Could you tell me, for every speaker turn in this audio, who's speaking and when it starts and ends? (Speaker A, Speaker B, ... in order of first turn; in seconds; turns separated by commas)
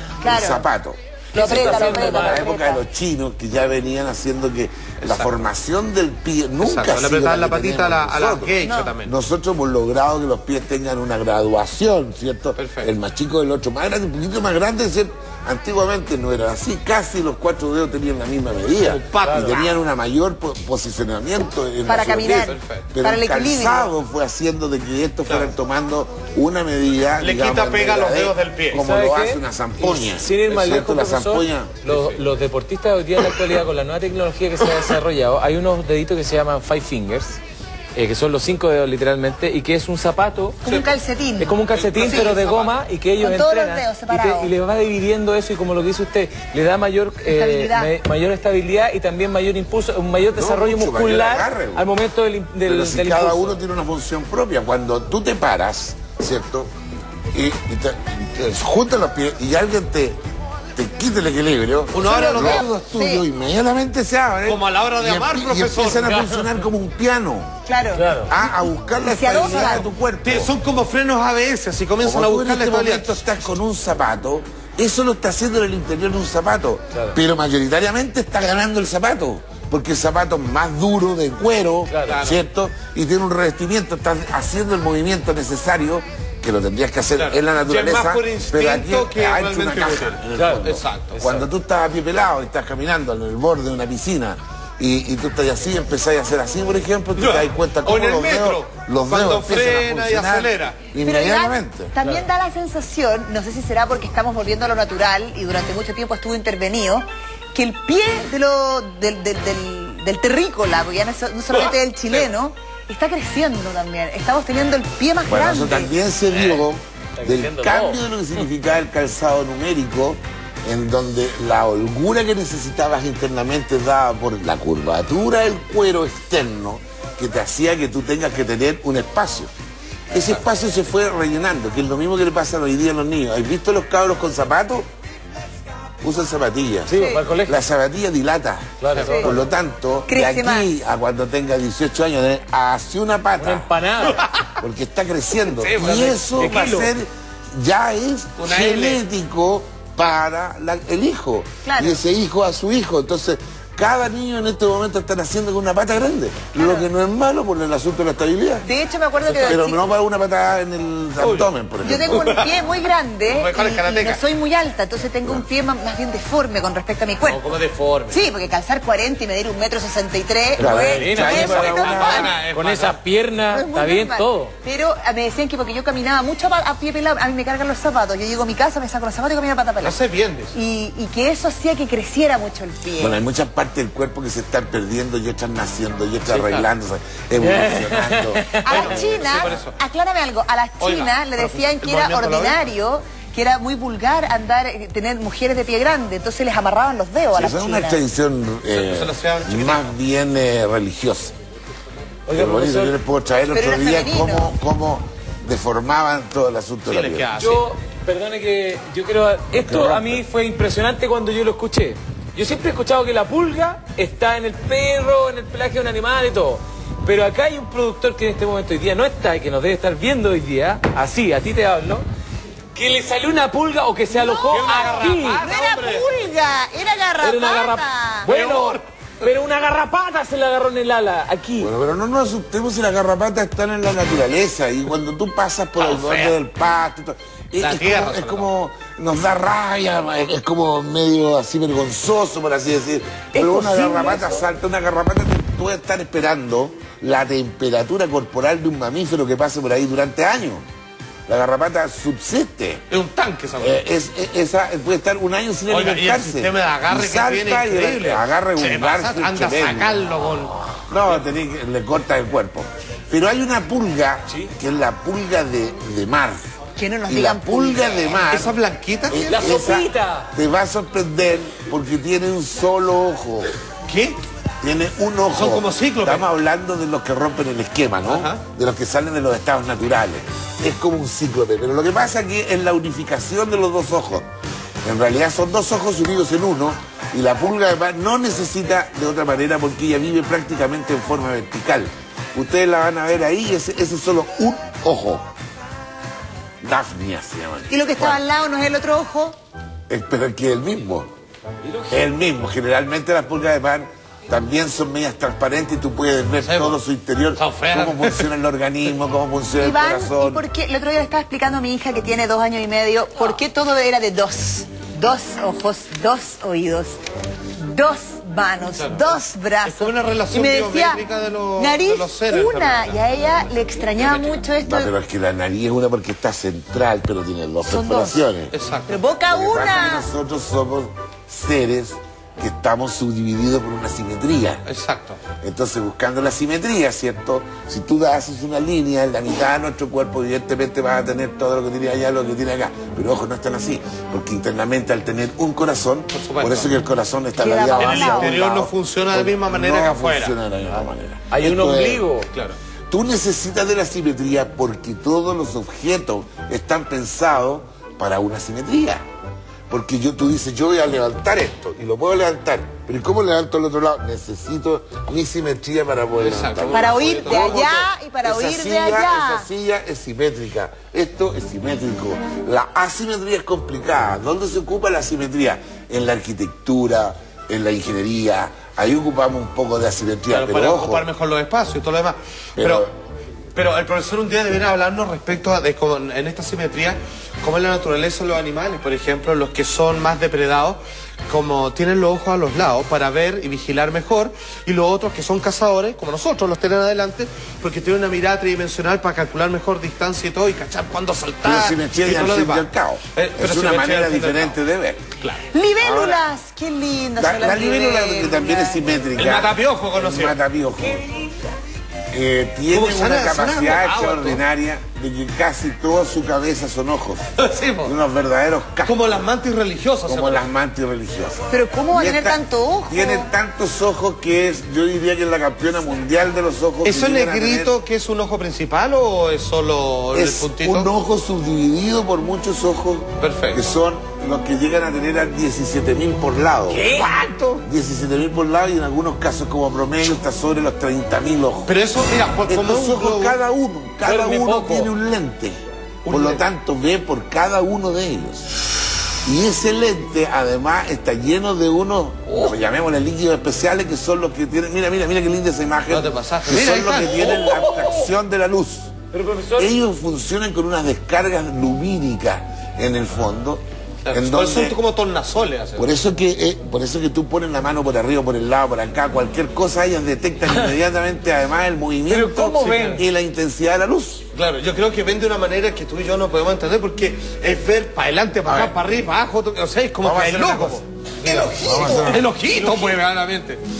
Speaker A: 0.2-0.6, Speaker B: 0.2-8.5, Speaker C: 1.3-2.6, Speaker A: 1.3-2.8, Speaker D: 5.0-5.3, Speaker D: 6.6-9.2, Speaker A: 8.6-9.0, Speaker B: 9.0-31.7, Speaker D: 12.6-12.9, Speaker D: 18.8-19.8, Speaker C: 19.2-19.6, Speaker A: 21.9-23.9, Speaker D: 22.3-22.9, Speaker D: 25.3-25.6, Speaker D: 27.2-28.8, Speaker C: 28.8-37.4, Speaker D: 29.8-30.1, Speaker D: 31.9-32.2, Speaker C: 38.0-40.6, Speaker A: 40.6-42.4, Speaker D: 40.6-41.0, Speaker C: 41.4-53.6, Speaker D: 41.7-42.8, Speaker A: 43.2-44.5, Speaker A: 47.3-47.9, Speaker B: 50.4-51.9, Speaker B: 52.6-56.7, Speaker B: 57.3-60.2, Speaker B: 60.8-67.5, Speaker D: 61.9-62.7, Speaker A: 62.0-63.2, Speaker D: 64.5-66.2, Speaker C: 66.1-66.6, Speaker A: 67.7-68.5, Speaker C: 68.0-68.3, Speaker B: 68.3-70.5, Speaker A: 69.0-69.9, Speaker D: 69.4-73.2, Speaker B: 72.0-102.0, Speaker C: 81.9-82.2, Speaker D: 82.0-82.4, Speaker D: 87.1-91.2, Speaker C: 90.3-91.5, Speaker D: 97.2-100.8, Speaker A: 101.0-115.9, Speaker D: 111.5-112.3, Speaker B: 115.3-129.5, Speaker D: 116.3-116.7, Speaker C: 117.2-118.0, Speaker B: 130.1-134.9, Speaker B: 136.0-136.9, Speaker C: 136.9-137.6, Speaker A: 136.9-137.3, Speaker B: 137.5-143.7, Speaker C: 138.8-139.4, Speaker D: 138.9-139.2, Speaker A: 140.1-140.7, Speaker C: 143.4-144.2, Speaker D: 144.0-144.6, Speaker B: 144.6-158.7, Speaker D: 145.4-146.3, Speaker C: 145.9-146.9, Speaker D: 148.4-149.0, Speaker A: 151.7-152.0, Speaker A: 156.6-156.9, Speaker A: 158.6-159.9, Speaker B: 159.4-162.3, Speaker D: 161.2-161.5, Speaker A: 161.8-167.6, Speaker D: 162.1-164.2, Speaker D: 167.2-168.2, Speaker A: 168.1-172.4, Speaker C: 170.6-174.5, Speaker B: 170.6-172.3, Speaker D: 171.2-173.0, Speaker A: 173.5-180.0, Speaker D: 179.8-180.6, Speaker A: 180.5-183.2, Speaker B: 183.0-189.2, Speaker D: 186.3-186.7, Speaker C: 187.4-188.9, Speaker A: 188.6-198.0, Speaker D: 188.7-189.7, Speaker D: 190.8-192.6, Speaker B: 197.3-201.3, Speaker D: 198.7-199.9, Speaker C: 202.3-202.9, Speaker B: 202.3-207.3, Speaker A: 203.5-204.5, Speaker D: 206.9-207.6, Speaker C: 207.4-222.0, Speaker B: 209.6-210.2, Speaker C: 222.8-225.4, Speaker A: 224.1-228.3, Speaker D: 224.5-226.1, Speaker C: 227.2-231.7, Speaker D: 228.3-229.2, Speaker B: 231.6-250.6, Speaker D: 235.8-236.4, Speaker D: 237.6-238.5, Speaker C: 243.3-244.4, Speaker B: 251.3-252.8, Speaker D: 252.9-253.8, Speaker B: 253.6-266.4, Speaker D: 255.7-261.2, Speaker A: 266.8-268.1, Speaker B: 267.1-268.5, Speaker D: 268.1-269.6, Speaker B: 269.1-273.5, Speaker C: 269.3-270.3, Speaker D: 273.9-274.2, Speaker B: 274.6-284.3, Speaker D: 275.3-276.2, Speaker D: 278.0-278.4, Speaker B: 284.8-295.3, Speaker B: 296.6-298.2, Speaker A: 297.7-299.4, Speaker B: 299.9-301.1, Speaker C: 301.6-301.9, Speaker B: 301.9-310.4, Speaker D: 306.4-306.8, Speaker D: 307.4-308.3, Speaker A: 309.6-317.0, Speaker A: 317.6-321.0, Speaker D: 318.8-319.1, Speaker D: 319.6-323.0, Speaker A: 321.6-324.9, Speaker D: 324.0-324.4, Speaker B: 324.6-328.5, Speaker A: 327.6-328.2, Speaker D: 328.5-328.9, Speaker A: 328.9-330.1, Speaker B: 329.3-334.6, Speaker D: 334.6-335.2, Speaker B: 335.4-352.1, Speaker D: 346.1-346.7, Speaker A: 347.4-348.4, Speaker D: 347.7-350.4, Speaker C: 351.3-352.3, Speaker D: 352.3-352.6, Speaker B: 352.9-359.0, Speaker B: 359.7-381.0, Speaker D: 366.2-367.6, Speaker A: 366.7-369.5, Speaker D: 380.3-382.9, Speaker B: 382.6-382.9, Speaker D: 383.6-404.6, Speaker B: 401.4-405.0, Speaker D: 405.2-405.4, Speaker A: 405.5-408.8, Speaker B: 405.8-406.2, Speaker B: 407.2-411.1, Speaker D: 409.2-410.4, Speaker C: 410.8-411.4, Speaker B: 412.1-417.2, Speaker D: 412.7-414.4, Speaker D: 417.4-417.9, Speaker B: 417.8-419.0, Speaker D: 418.9-420.5, Speaker B: 420.1-427.7, Speaker A: 421.5-423.3, Speaker D: 426.8-430.9, Speaker B: 430.1-441.7, Speaker D: 433.2-433.6, Speaker C: 436.7-437.1, Speaker D: 441.7-443.4, Speaker B: 442.5-445.6, Speaker C: 444.0-444.9, Speaker D: 446.1-446.4, Speaker B: 446.1-448.5, Speaker B: 449.2-458.9, Speaker D: 455.9-457.5, Speaker C: 457.2-458.0, Speaker C: 459.1-459.7, Speaker B: 459.6-464.8, Speaker D: 464.1-465.9, Speaker B: 465.8-474.3, Speaker C: 472.1-473.0, Speaker D: 472.6-473.0, Speaker D: 474.3-483.6, Speaker B: 478.5-478.8, Speaker B: 480.0-482.9, Speaker C: 481.3-482.2